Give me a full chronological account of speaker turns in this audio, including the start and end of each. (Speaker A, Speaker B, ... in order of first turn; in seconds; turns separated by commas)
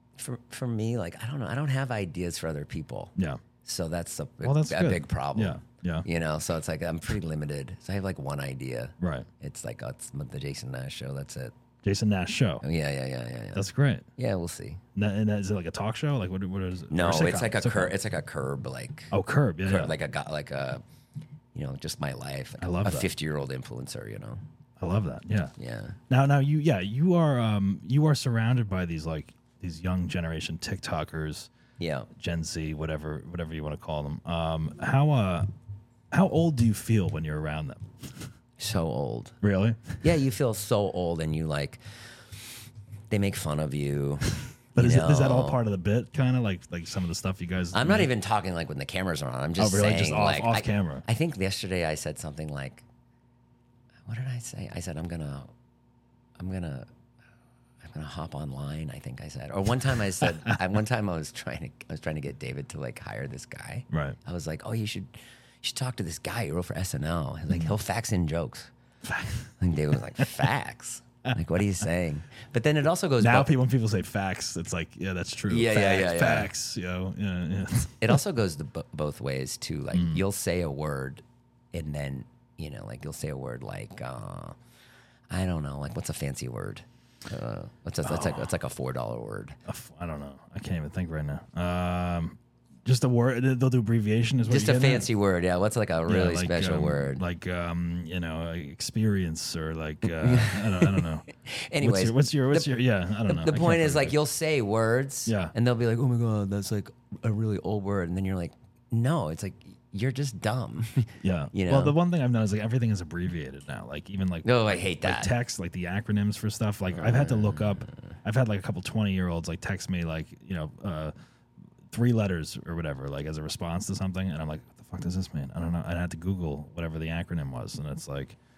Speaker A: 0.2-3.1, Speaker B: 3.1-3.4, Speaker A: 3.6-11.5, Speaker B: 4.4-6.1, Speaker B: 9.0-9.3, Speaker B: 11.8-12.6, Speaker A: 12.6-14.8, Speaker B: 13.5-14.1, Speaker B: 14.9-17.9, Speaker A: 16.9-19.1, Speaker B: 19.1-20.0, Speaker A: 19.6-20.8, Speaker A: 21.5-24.4, Speaker B: 22.6-23.1, Speaker B: 24.8-25.5, Speaker A: 25.6-26.0, Speaker B: 26.1-31.5, Speaker A: 31.8-32.1, Speaker B: 32.1-35.5, Speaker B: 36.1-38.3, Speaker A: 38.6-39.4, Speaker B: 39.4-40.0, Speaker A: 40.0-42.4, Speaker A: 43.1-45.6, Speaker B: 44.7-48.1, Speaker A: 47.7-52.8, Speaker B: 49.6-51.0, Speaker A: 54.0-55.5, Speaker A: 56.4-56.9, Speaker A: 57.8-68.7, Speaker B: 63.9-64.2, Speaker B: 69.0-69.5, Speaker A: 69.6-73.5, Speaker B: 71.2-71.8, Speaker B: 73.2-78.2, Speaker A: 75.5-76.5, Speaker A: 78.0-84.6, Speaker B: 79.9-80.2, Speaker A: 85.3-89.6, Speaker B: 88.0-88.5, Speaker B: 89.7-95.1, Speaker A: 94.4-97.2, Speaker B: 96.1-101.3, Speaker A: 100.1-102.7, Speaker B: 101.8-104.2, Speaker A: 103.2-112.0, Speaker B: 105.2-105.5, Speaker B: 111.2-121.1, Speaker A: 114.4-115.3, Speaker A: 116.9-118.1, Speaker B: 121.9-128.4